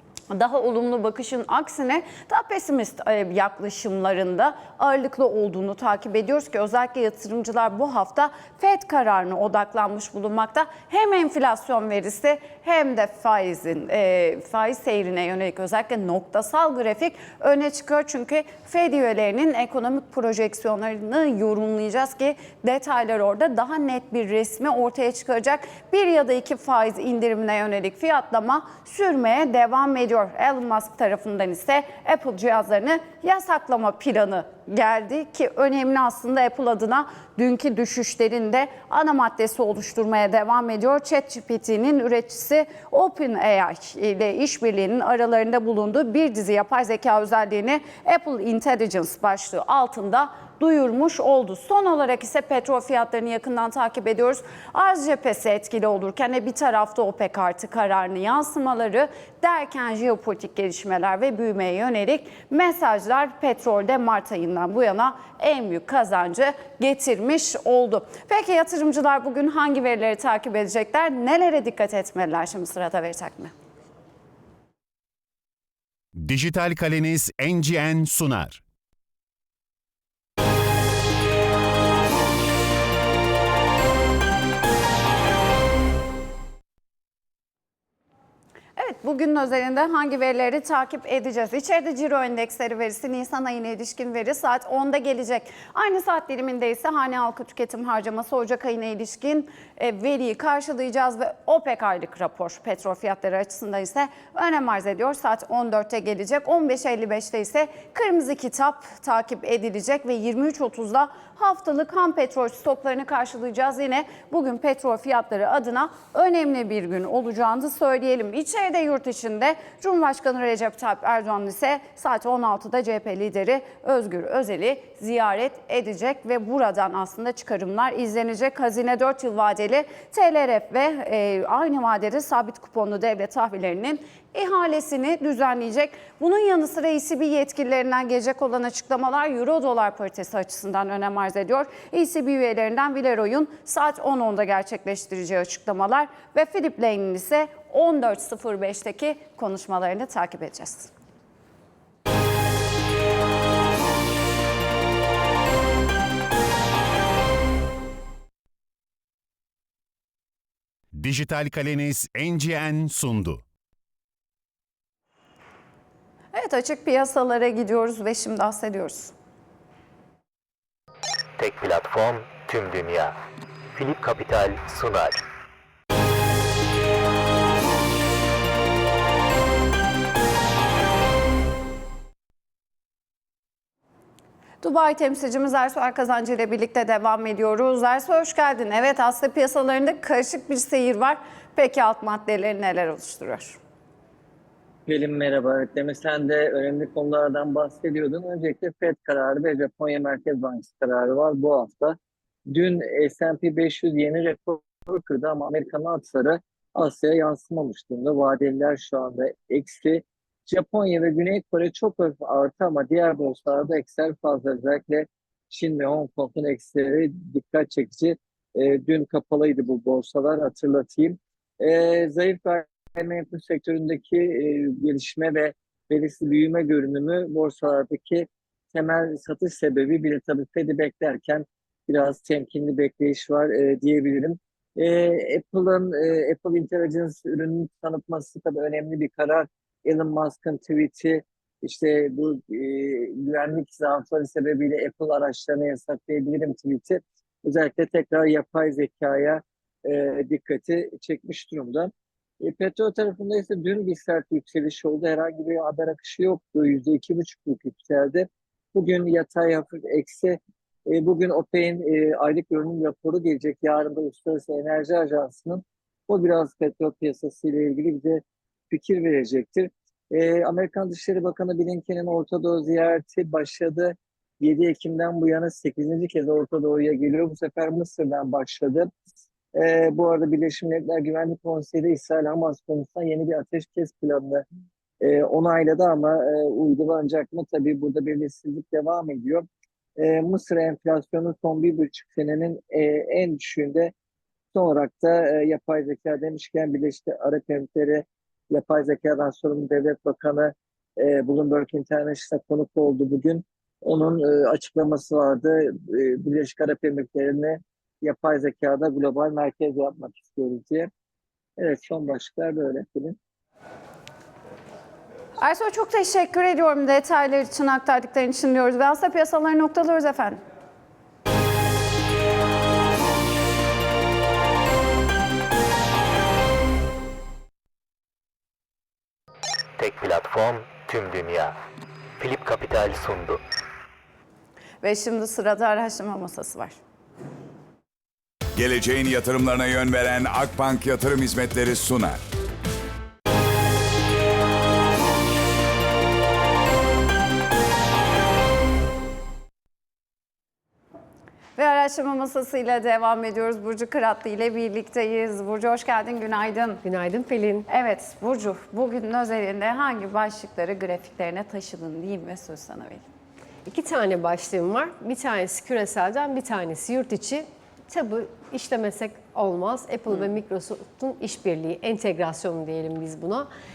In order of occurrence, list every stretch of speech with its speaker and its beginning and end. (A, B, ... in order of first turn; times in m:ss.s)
0:00.3-1:13.5 A
1:16.2-1:18.6 B
1:28.8-2:30.9 A
2:40.9-2:43.4 B
2:46.3-2:49.1 A
2:51.4-2:53.2 C
2:53.7-2:55.2 C
3:04.6-3:13.6 A
3:14.9-3:22.0 D
3:22.5-4:38.9 D
4:39.5-4:44.4 D
4:45.0-4:49.5 D
4:50.0-4:53.9 D
4:54.5-5:10.9 D
5:11.6-5:13.2 D
5:15.4-5:20.4 A
5:29.8-5:31.6 C
5:32.2-5:33.4 C
5:34.8-5:36.8 A
5:38.6-5:42.2 E
5:51.6-5:56.8 A
5:56.8-5:57.7 F
5:57.7-6:03.0 A
6:03.7-6:13.5 F